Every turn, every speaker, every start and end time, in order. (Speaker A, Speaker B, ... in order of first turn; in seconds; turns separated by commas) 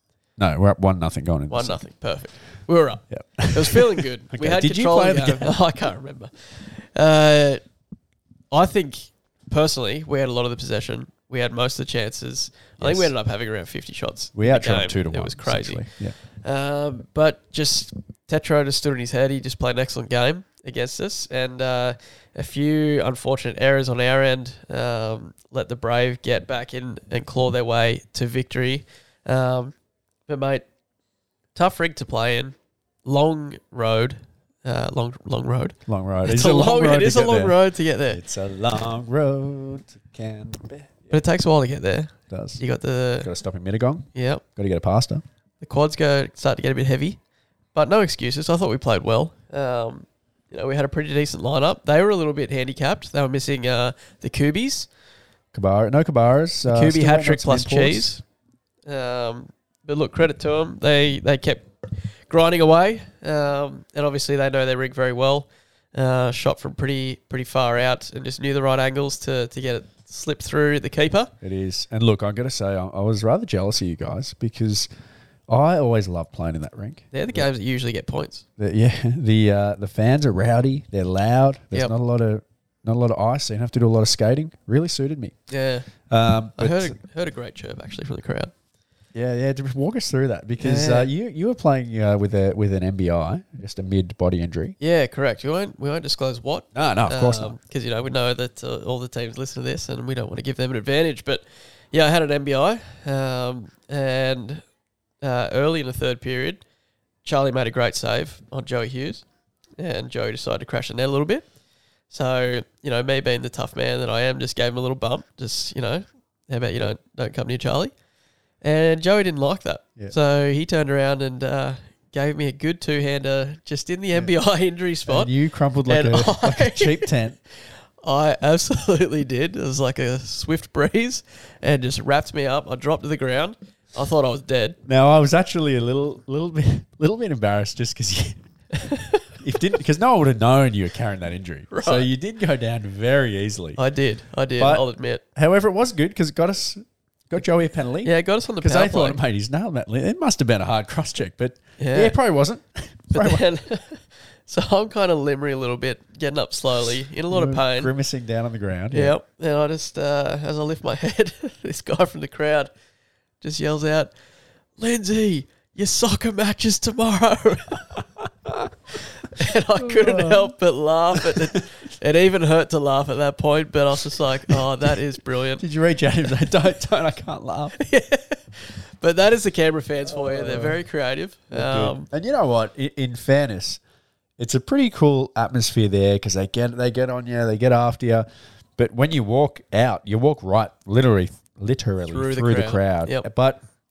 Speaker A: 0.4-1.8, Speaker B: 1.5-7.6, Speaker A: 3.1-5.6, Speaker B: 8.5-15.9, Speaker A: 12.8-13.1, Speaker A: 14.3-16.1, Speaker B: 16.4-29.7, Speaker B: 30.3-30.6, Speaker B: 31.5-38.2, Speaker A: 35.9-37.6, Speaker A: 38.1-41.2, Speaker B: 41.1-43.3, Speaker A: 42.3-42.6, Speaker A: 43.2-45.2, Speaker B: 44.1-44.4, Speaker B: 45.6-47.2, Speaker B: 47.7-54.9, Speaker A: 55.5-58.1, Speaker B: 56.7-58.2, Speaker B: 58.9-71.3, Speaker A: 71.4-74.9, Speaker A: 75.5-77.4, Speaker B: 77.1-78.4, Speaker A: 78.6-85.3, Speaker B: 85.5-85.9, Speaker A: 86.1-87.0, Speaker B: 86.6-88.5, Speaker A: 89.1-94.8, Speaker B: 90.6-91.1, Speaker B: 94.8-104.6, Speaker A: 96.7-97.5, Speaker B: 105.2-106.6, Speaker B: 107.2-109.2, Speaker B: 109.8-111.5, Speaker B: 112.1-117.9, Speaker B: 118.6-125.3, Speaker A: 125.1-127.4, Speaker B: 125.9-127.1, Speaker B: 128.0-134.8, Speaker A: 134.8-138.4, Speaker B: 138.8-139.2, Speaker A: 139.4-143.8, Speaker B: 141.7-142.1, Speaker B: 143.8-145.2, Speaker A: 144.6-153.4, Speaker B: 148.0-149.2, Speaker B: 151.8-152.2, Speaker B: 153.1-157.9, Speaker A: 157.3-159.2, Speaker B: 158.9-162.7, Speaker B: 163.4-164.1, Speaker B: 164.8-167.9, Speaker B: 169.2-175.6, Speaker A: 169.8-170.5, Speaker A: 171.1-171.6, Speaker A: 175.6-177.8, Speaker B: 177.8-182.1, Speaker A: 180.1-180.8, Speaker A: 181.5-183.8, Speaker A: 184.4-193.6, Speaker B: 192.1-193.3